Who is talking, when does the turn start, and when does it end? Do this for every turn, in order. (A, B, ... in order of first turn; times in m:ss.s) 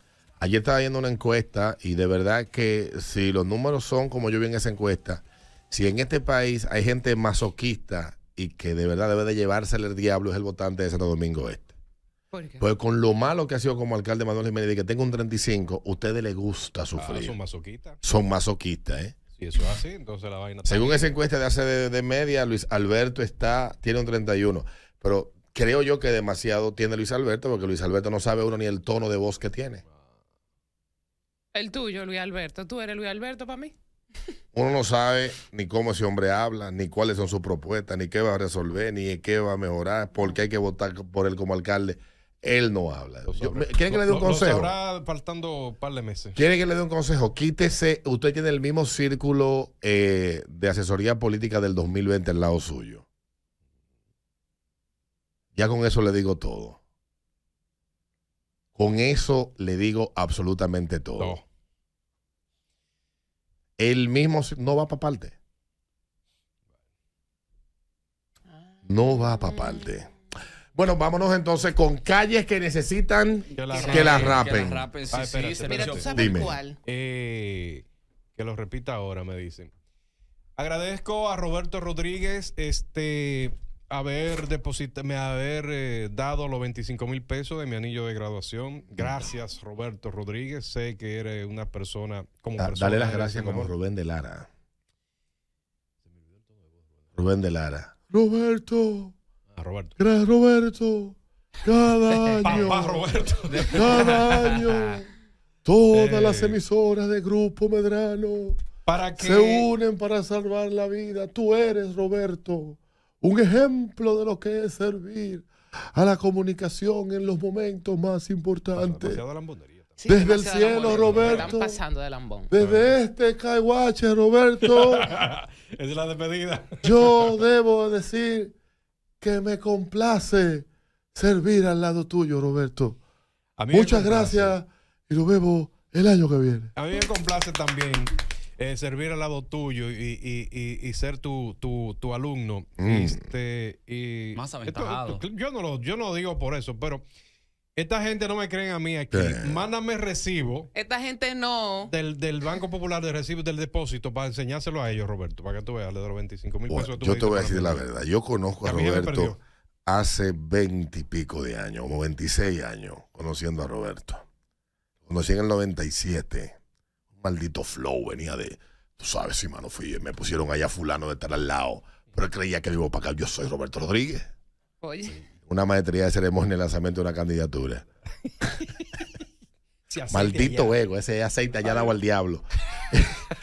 0:00.4-0:11.7 A
0:12.3-0:12.6 B
0:12.6-0:17.4 A
0:17.0-0:18.0 C
0:18.0-0:19.2 A
0:19.4-0:21.2 C
0:20.7-0:29.8 A
0:31.5-0:33.7 B
0:34.5-0:44.8 A
0:43.3-0:46.4 C
0:46.4-0:53.0 A
0:55.6-0:56.8 A
0:58.8-1:01.4 A
1:01.2-1:01.4 C
1:03.8-1:05.4 A
1:08.9-1:10.1 A
1:09.1-1:10.0 B
1:10.8-1:14.9 A
1:13.5-1:14.5 C
1:13.7-1:16.2 D
1:15.1-1:16.1 C
1:15.7-1:16.8 B
1:16.1-1:16.6 A
1:16.8-1:19.7 C
1:20.6-1:33.7 C
1:32.6-1:34.5 A
1:37.2-1:39.2 A
1:39.5-1:39.9 C
1:40.0-1:45.1 A
1:42.4-1:44.9 C
1:45.6-1:48.6 A
1:45.9-1:46.6 C
1:48.8-1:49.7 C
1:49.2-1:59.2 A
1:58.8-2:00.0 C
2:00.0-2:02.5 B
2:00.1-2:01.8 A
2:00.7-2:01.5 C
2:02.5-2:05.1 A
2:02.6-2:03.0 C
2:04.7-2:07.4 C
2:06.8-2:08.5 A
2:09.2-2:13.0 A
2:13.6-2:14.6 C
2:13.7-2:16.7 A
2:16.7-2:27.0 C
2:22.8-2:23.3 A
2:24.4-2:25.2 D
2:27.8-2:30.7 C
2:29.1-2:29.6 A
2:30.7-2:31.9 B
2:31.9-2:37.8 C
2:36.7-2:44.2 A
2:38.6-2:39.4 C
2:45.1-2:46.6 A
2:47.2-2:54.3 A
2:54.8-2:55.1 B
2:55.5-2:57.8 A
2:59.9-3:00.8 C
3:00.1-3:03.2 A